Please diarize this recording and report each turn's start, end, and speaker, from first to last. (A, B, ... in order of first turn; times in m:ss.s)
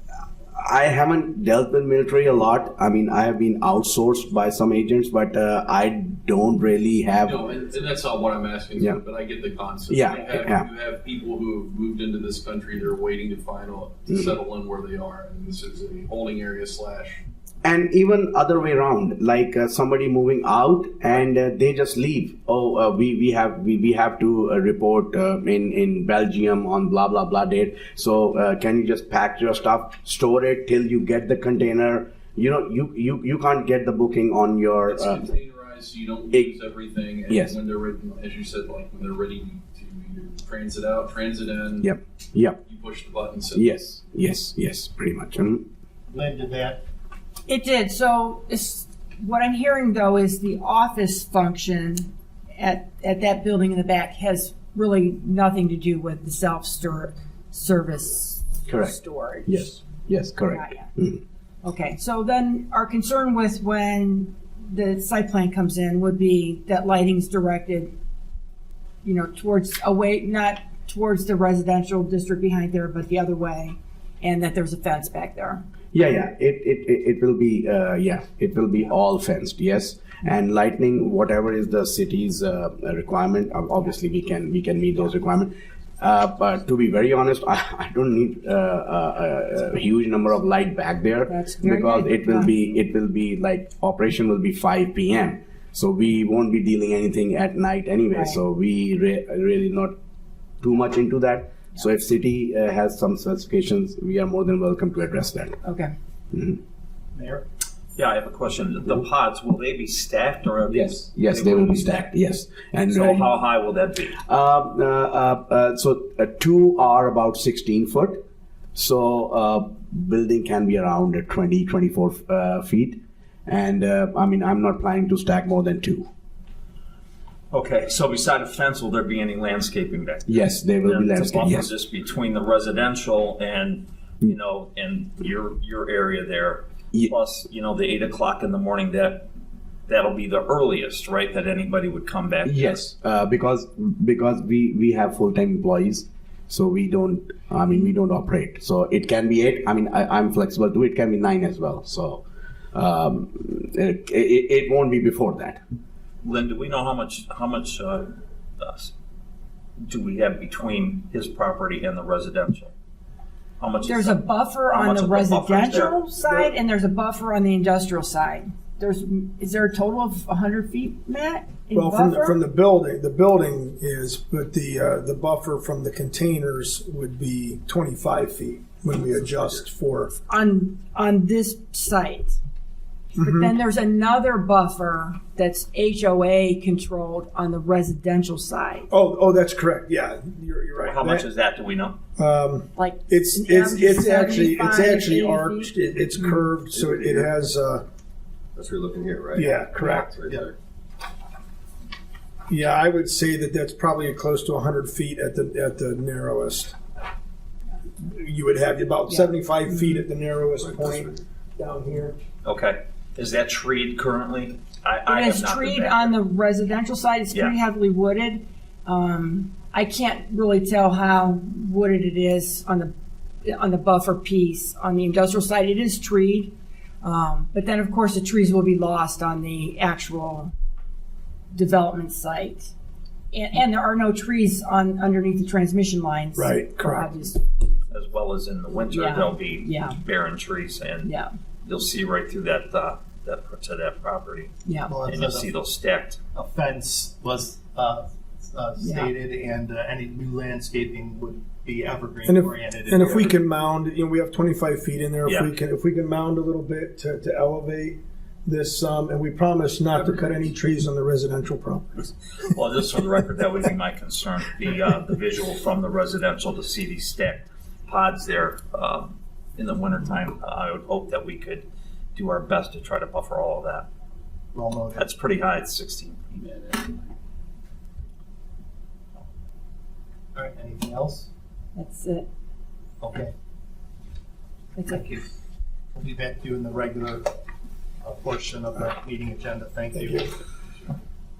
0:00.5-0:07.4 A
0:07.2-0:17.2 B
0:09.9-0:10.6 A
0:17.6-0:35.2 A
0:34.8-0:41.9 B
0:37.3-0:37.6 A
0:41.8-0:42.6 A
0:42.7-0:43.7 B
0:43.5-0:45.6 A
0:46.1-0:46.8 C
0:47.5-0:59.7 D
0:58.7-1:01.2 A
1:00.5-1:00.9 D
1:01.6-1:07.9 D
1:09.0-1:15.6 D
1:15.9-1:40.0 A
1:31.3-1:32.5 D
1:38.1-1:38.4 D
1:40.6-1:45.6 A
1:45.6-1:45.9 D
1:46.3-1:46.6 A
1:47.1-1:47.4 C
1:48.0-1:52.1 E
1:50.7-1:53.3 A
1:52.9-1:54.2 E
1:54.2-1:58.2 A
1:58.7-2:06.1 A
2:07.5-2:19.3 E
2:10.3-2:11.7 A
2:19.9-2:22.8 E
2:22.4-2:35.6 A
2:36.2-2:38.9 E
2:39.8-2:42.7 E
2:43.6-2:46.5 E
2:43.8-2:52.4 D
2:51.7-3:00.1 F
3:00.2-3:02.4 D
3:03.2-3:03.5 F
3:03.2-3:08.9 D
3:08.9-3:11.2 F
3:10.8-3:12.0 E
3:12.2-3:17.8 F
3:12.8-3:15.7 D
3:16.7-3:17.3 G
3:18.6-3:20.5 G
3:19.3-3:20.1 F
3:22.5-3:26.8 F
3:28.0-3:32.2 F
3:30.6-3:31.0 G
3:32.4-3:36.1 E
3:35.1-3:42.9 D
3:43.4-3:50.5 D
3:51.5-3:52.7 D
3:53.3-3:57.9 D
3:56.4-3:57.1 F
3:57.9-4:01.1 E
3:58.9-4:00.0 D
4:01.0-4:01.3 D
4:01.6-4:04.5 E
4:04.6-4:04.9 D
4:04.9-4:05.5 C
4:05.0-4:06.2 E
4:06.3-4:13.4 C
4:08.8-4:09.1 D
4:12.2-4:22.1 F
4:15.2-4:15.5 E
4:22.5-4:33.9 E
4:34.5-4:35.0 C
4:34.9-4:36.8 E
4:40.3-4:41.3 C
4:41.7-4:42.3 D
4:43.0-4:43.3 C
4:44.8-4:45.0 D
4:44.8-4:45.2 C
4:45.9-4:47.3 C
4:48.0-4:50.3 C